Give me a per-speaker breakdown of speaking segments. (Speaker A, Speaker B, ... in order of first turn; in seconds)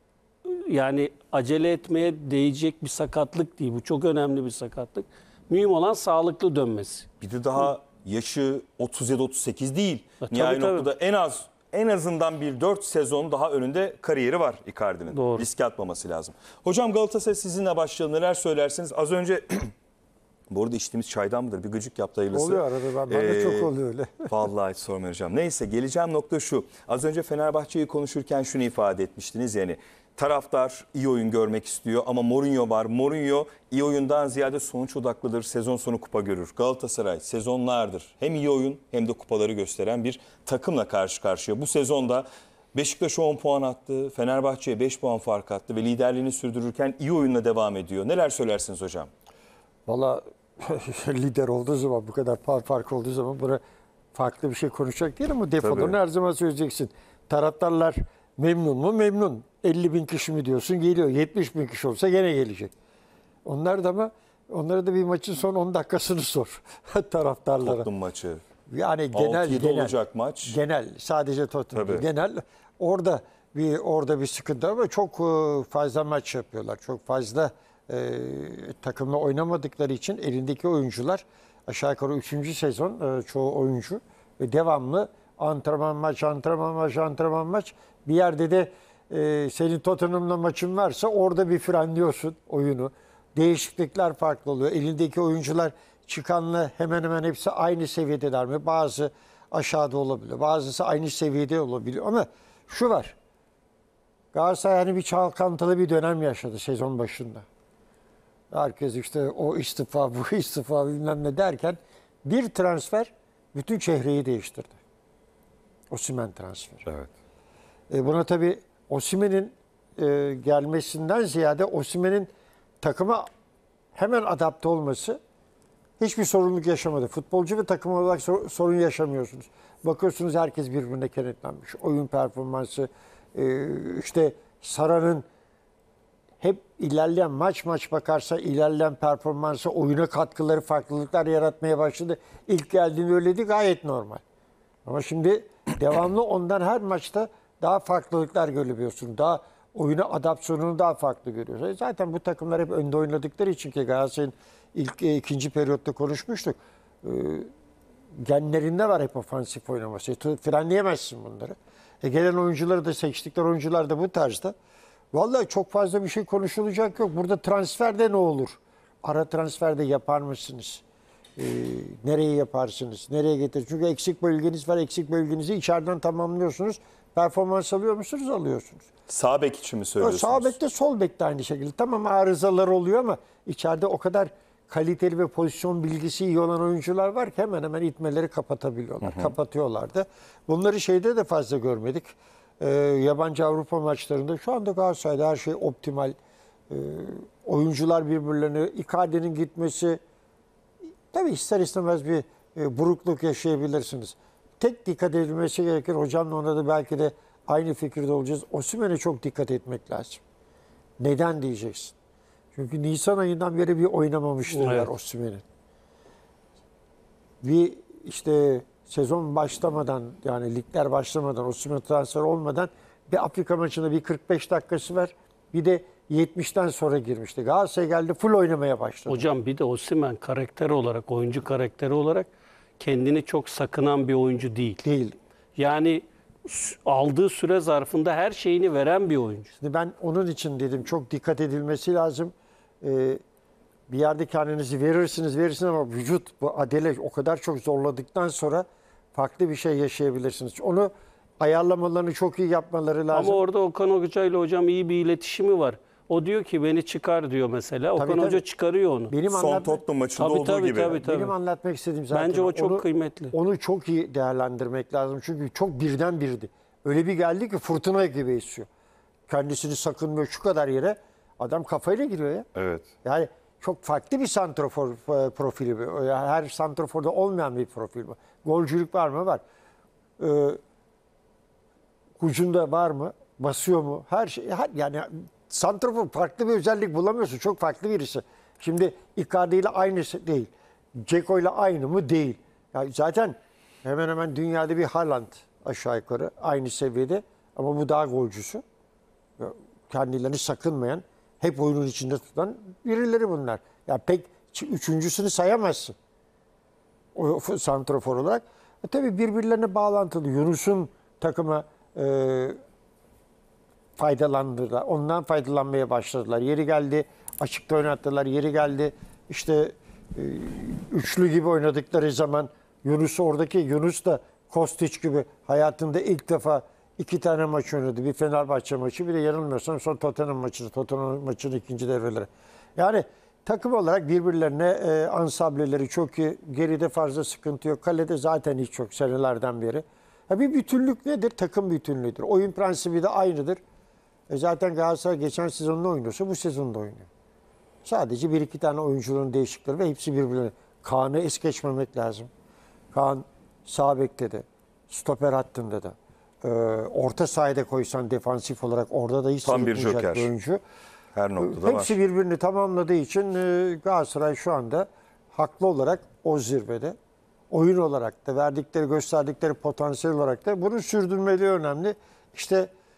Speaker A: 0.5-7.1, 10.2-10.9, 15.1-15.5, 214.5-214.9, 229.1-232.3, 232.8-234.8, 235.6-239.5, 253.1-259.2, 260.2-261.3, 262.1-263.3
Speaker B: 7.2-19.7, 20.5-23.7, 24.3-49.1, 55.6-56.0, 67.6-68.4, 69.1-70.6, 71.7-72.0, 179.1-180.6, 189.0-189.3, 259.3-261.0, 272.6-272.9, 359.4-360.3, 361.1-362.0
Speaker C: 22.3-24.3, 49.9-53.6, 54.1-62.7, 63.5-67.9, 68.7-103.2, 104.3-107.5, 108.5-114.8, 115.9-116.9, 117.9-122.3, 122.8-123.3, 124.0-125.2, 126.0-135.2, 136.4-144.2, 144.8-157.5, 158.2-164.6, 165.1-170.8, 171.4-178.9, 180.0-196.2, 196.7-200.0, 201.1-210.2, 211.0-211.9, 212.5-215.4, 217.4-229.2, 234.8-235.2, 239.6-243.2, 243.9-253.4, 258.0-258.4, 259.1-259.8, 260.9-268.7, 269.3-272.5, 273.0-279.4, 280.2-280.6, 282.2-298.6, 299.4-305.9, 307.1-312.6, 314.0-343.6, 344.3-347.1, 347.9-352.3, 352.9-360.6, 361.4-367.0, 367.5-372.7